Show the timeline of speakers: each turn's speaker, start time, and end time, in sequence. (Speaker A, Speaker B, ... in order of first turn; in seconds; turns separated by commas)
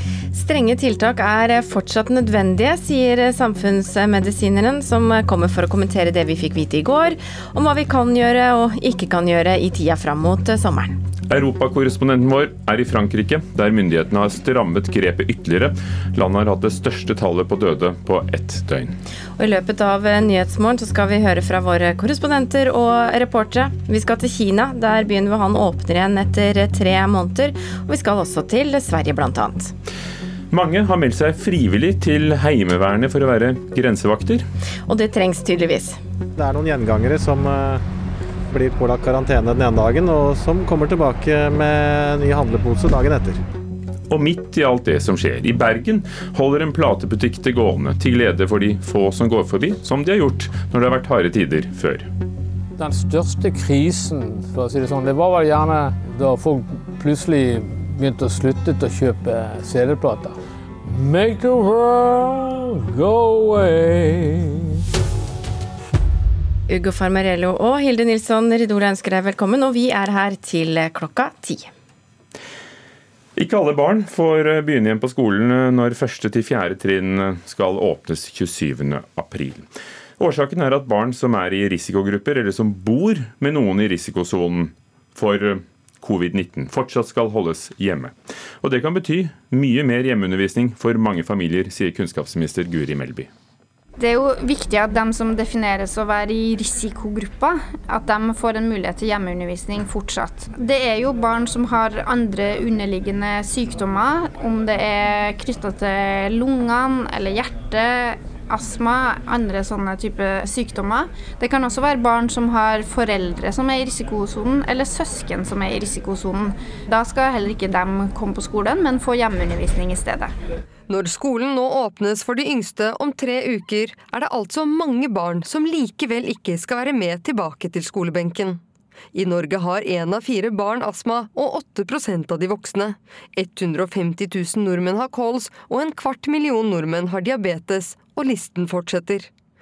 Speaker A: 0.3-11.0, Speaker B: 11.3-18.9, Speaker A: 19.4-29.7, Speaker B: 30.5-34.4, Speaker A: 34.9-36.0, Speaker C: 36.4-37.8, Speaker C: 38.5-43.4, Speaker B: 44.1-52.1, Speaker D: 52.8-64.7, Speaker A: 66.7-71.7, Speaker B: 73.4-79.7, Speaker B: 80.2-93.3, Speaker E: 94.0-120.3, Speaker F: 120.9-128.6, Speaker F: 129.1-139.3